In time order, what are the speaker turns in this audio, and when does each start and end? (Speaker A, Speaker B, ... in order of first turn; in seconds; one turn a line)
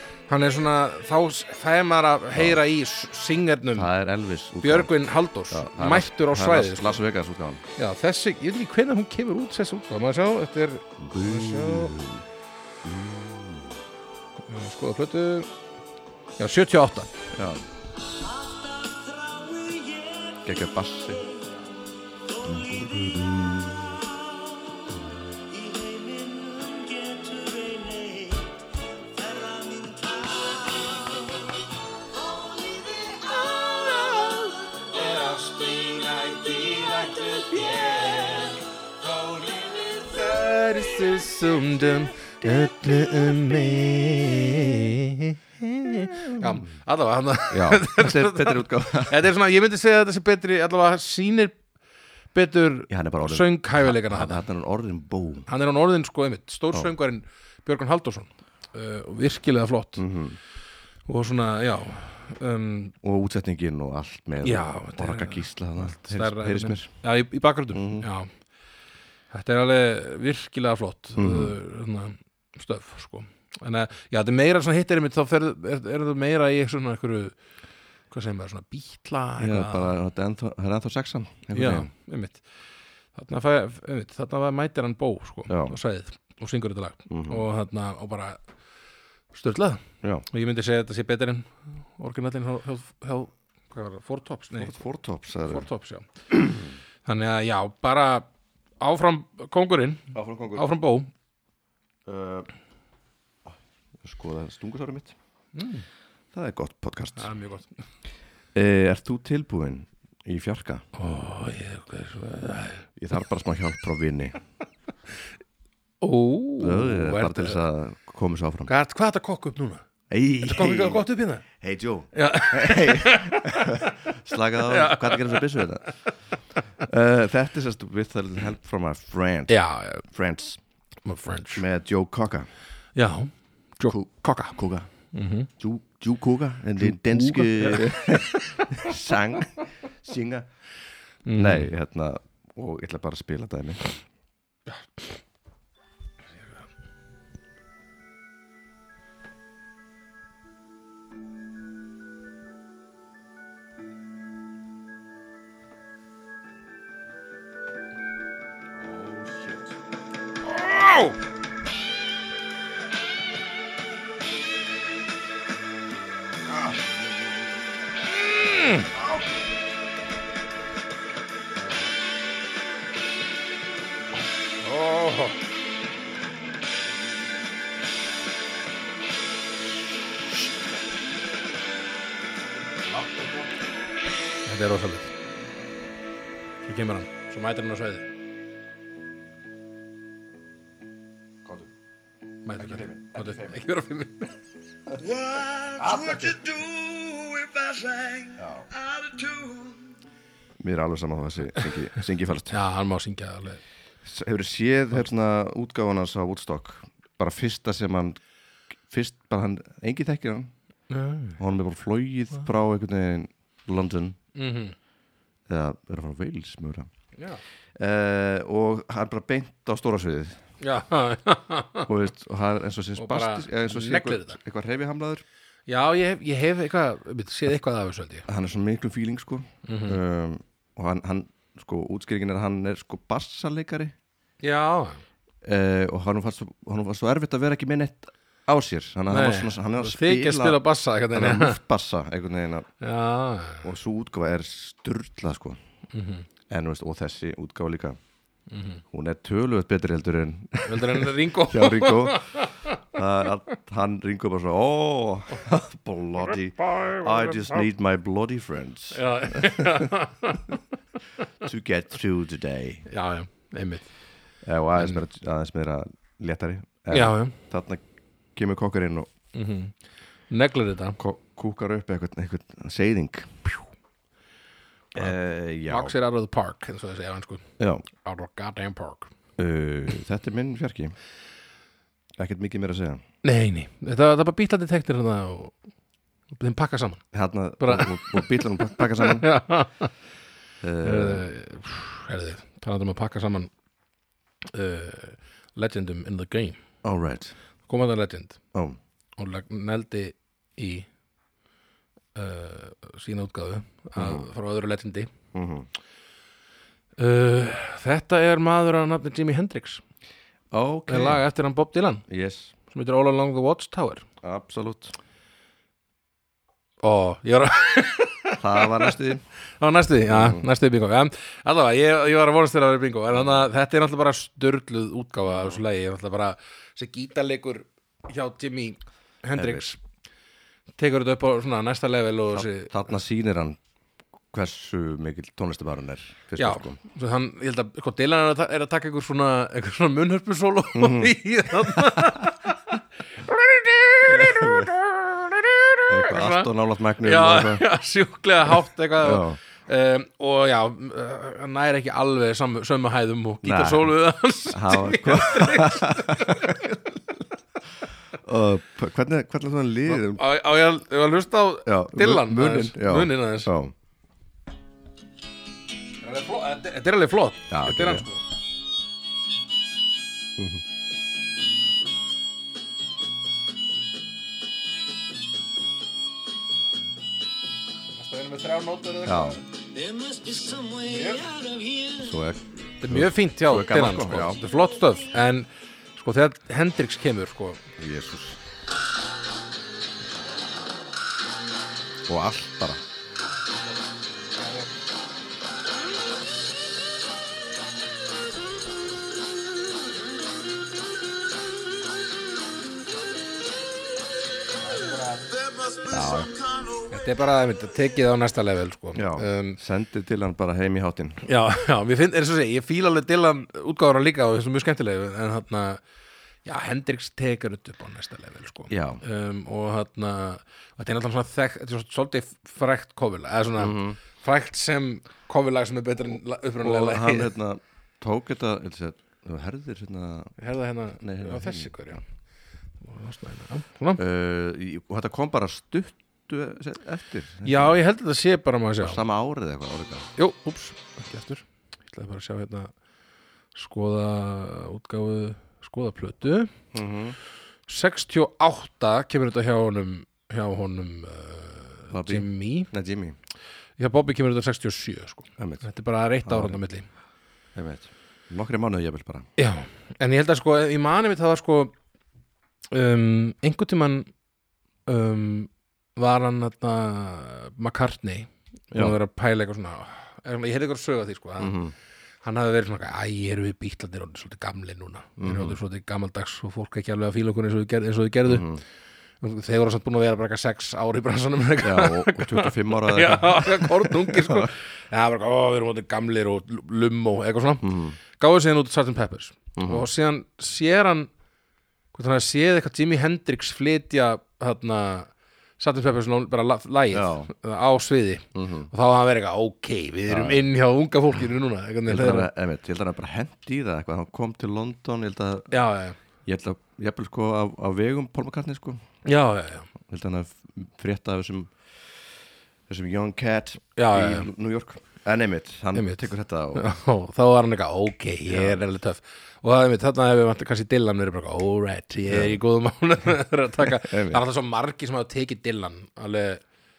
Speaker A: 0.3-3.9
Speaker B: 2.3-2.6
Speaker B: 3.7-7.6
Speaker A: 4.6-7.0
Speaker A: 7.8-12.0
Speaker B: 11.0-12.2
Speaker B: 12.8-13.8
Speaker A: 14.5-15.5
Speaker A: 16.4-17.1
Speaker B: 17.3-17.6
Speaker C: 18.2-20.4
Speaker B: 20.4-21.2
Speaker B: 22.4-24.1
Speaker C: 22.5-22.9
Speaker C: 25.5-28.5
Speaker C: 29.2-31.2
Speaker C: 32.2-34.5
Speaker A: 34.0-51.6
Speaker B: 46.1-46.6
Speaker B: 47.5-49.3
Speaker A: 52.3-54.4
Speaker B: 52.9-55.5
Speaker A: 55.5-60.0
Speaker B: 60.0-60.4
Speaker A: 61.0-62.9
Speaker B: 63.0-66.9
Speaker A: 64.4-68.3
Speaker B: 67.7-68.1
Speaker A: 69.3-77.3
Speaker B: 71.2-71.5
Speaker A: 78.1-79.9
Speaker B: 79.4-81.9
Speaker A: 81.5-82.4
Speaker A: 83.1-88.4
Speaker B: 85.5-85.7
Speaker B: 87.1-87.4
Speaker A: 89.3-94.7
Speaker B: 94.5-95.7
Speaker A: 95.5-96.1
Speaker B: 96.3-96.7
Speaker A: 97.0-98.3
Speaker A: 98.8-101.1
Speaker B: 100.1-100.6
Speaker B: 102.0-102.5
Speaker B: 103.5-105.1
Speaker A: 105.5-105.8
Speaker B: 106.3-107.3
Speaker A: 107.2-107.7
Speaker B: 108.5-110.8
Speaker A: 110.9-112.9
Speaker B: 113.0-114.4
Speaker A: 116.0-117.6
Speaker B: 116.6-118.7
Speaker A: 118.7-119.8
Speaker B: 120.1-126.0
Speaker A: 120.4-121.4
Speaker A: 122.1-124.1
Speaker A: 124.6-126.0
Speaker B: 126.8-130.6
Speaker A: 129.5-130.0
Speaker A: 131.0-131.6
Speaker B: 131.5-132.5
Speaker A: 132.9-134.6
Speaker B: 133.9-134.9
Speaker A: 135.1-135.5
Speaker B: 135.6-140.5
Speaker A: 136.8-138.7
Speaker A: 141.2-141.7
Speaker B: 141.3-143.8
Speaker A: 144.7-145.1
Speaker B: 158.7-159.7
Speaker A: 160.4-161.2
Speaker A: 168.1-168.9
Speaker A: 174.6-175.3
Speaker B: 182.9-183.5
Speaker A: 184.4-185.1
Speaker A: 186.6-188.1
Speaker B: 191.4-191.7
Speaker A: 192.4-194.3
Speaker B: 192.6-193.6
Speaker C: 195.0-199.8
Speaker B: 195.8-196.4
Speaker B: 198.3-198.7
Speaker B: 200.6-202.6
Speaker A: 202.5-203.6
Speaker B: 204.0-208.2
Speaker B: 208.9-210.5
Speaker A: 210.9-211.4
Speaker B: 211.4-214.2
Speaker A: 214.3-214.7
Speaker B: 215.5-216.9
Speaker A: 217.2-217.4
Speaker B: 217.8-220.4
Speaker A: 220.6-221.9
Speaker B: 221.9-225.2
Speaker A: 222.9-224.4
Speaker A: 225.7-228.2
Speaker B: 228.3-233.9
Speaker A: 229.6-230.0
Speaker A: 234.4-235.0
Speaker B: 235.4-240.6
Speaker A: 239.1-241.6
Speaker B: 241.1-242.7
Speaker A: 242.8-243.7
Speaker B: 243.6-245.6
Speaker A: 245.9-246.3
Speaker B: 246.5-248.0
Speaker A: 248.5-248.8
Speaker B: 248.9-259.9
Speaker A: 250.6-252.8
Speaker A: 256.6-257.6
Speaker A: 258.9-260.6
Speaker B: 261.4-262.8
Speaker A: 262.9-263.9
Speaker B: 264.4-267.8
Speaker A: 264.8-265.0
Speaker A: 266.9-267.3
Speaker B: 268.3-269.1
Speaker A: 269.3-269.7
Speaker A: 270.3-271.0
Speaker B: 271.0-273.7
Speaker B: 274.9-275.9
Speaker A: 275.7-279.1
Speaker B: 277.6-277.8
Speaker B: 279.4-280.9
Speaker B: 282.2-283.0
Speaker A: 283.2-285.5
Speaker A: 286.3-287.0
Speaker B: 287.1-289.3
Speaker A: 287.6-289.9
Speaker B: 290.6-291.3
Speaker A: 290.8-293.5
Speaker A: 294.4-296.6
Speaker B: 296.8-297.4
Speaker A: 297.6-298.4
Speaker A: 299.2-300.9
Speaker A: 302.1-305.1
Speaker B: 303.9-304.3
Speaker B: 305.3-305.7
Speaker A: 307.0-309.8
Speaker B: 310.5-311.2
Speaker A: 310.9-312.0
Speaker B: 312.1-312.5
Speaker A: 312.7-314.1
Speaker B: 314.2-314.9
Speaker A: 316.8-318.9
Speaker B: 318.4-319.2
Speaker A: 319.6-329.8
Speaker B: 320.1-320.5
Speaker B: 323.1-323.5
Speaker B: 329.3-329.6
Speaker A: 330.8-332.7
Speaker B: 332.3-333.6
Speaker B: 334.3-336.8
Speaker A: 336.4-342.6
Speaker B: 340.7-341.1
Speaker B: 341.7-342.1
Speaker A: 343.2-346.5
Speaker B: 344.1-344.7
Speaker B: 345.9-347.6
Speaker A: 347.0-356.7
Speaker B: 349.0-349.4
Speaker B: 353.4-353.9
Speaker B: 354.5-357.0
Speaker B: 358.1-360.2
Speaker A: 359.9-363.5
Speaker B: 361.6-363.7
Speaker A: 366.0-368.2
Speaker B: 367.5-368.1
Speaker B: 370.4-370.6
Speaker A: 377.9-379.4
Speaker B: 379.1-379.4
Speaker C: 379.7-382.1
Speaker A: 380.8-381.2
Speaker B: 381.9-384.4
Speaker A: 382.8-387.6
Speaker B: 387.8-388.4
Speaker B: 392.1-392.8
Speaker A: 394.3-394.7
Speaker A: 404.6-405.3
Speaker C: 405.3-406.9
Speaker B: 405.9-406.3
Speaker A: 406.9-409.6
Speaker B: 408.9-411.2
Speaker A: 411.2-415.8
Speaker A: 416.4-427.3
Speaker B: 418.7-419.0
Speaker B: 423.6-424.0
Speaker B: 426.6-430.3
Speaker A: 430.4-432.0
Speaker B: 431.0-431.9
Speaker A: 432.8-434.0
Speaker B: 434.0-437.8
Speaker A: 437.4-439.0
Speaker B: 438.8-440.1
Speaker A: 440.1-442.7
Speaker A: 443.5-446.5
Speaker B: 446.7-447.2
Speaker A: 447.7-452.7
Speaker B: 451.9-453.2
Speaker A: 453.8-456.9
Speaker B: 455.4-455.6
Speaker B: 456.2-456.6
Speaker B: 457.5-459.3
Speaker A: 459.4-461.7
Speaker A: 462.7-464.1
Speaker A: 464.9-471.6
Speaker B: 471.4-471.7
Speaker A: 472.2-478.6
Speaker B: 475.2-475.6
Speaker B: 478.2-478.6
Speaker A: 479.2-491.1
Speaker B: 481.6-484.5
Speaker B: 487.6-488.0
Speaker B: 489.6-489.9
Speaker A: 491.9-502.3
Speaker B: 496.9-497.3
Speaker B: 498.3-498.7
Speaker B: 500.1-500.5
Speaker B: 501.9-505.6
Speaker A: 505.5-506.0
Speaker B: 506.2-508.8
Speaker A: 509.0-509.7
Speaker B: 509.8-511.6
Speaker B: 512.7-516.6
Speaker A: 513.8-514.3
Speaker A: 515.7-526.4
Speaker B: 518.3-518.6
Speaker B: 522.1-522.4
Speaker B: 523.7-524.2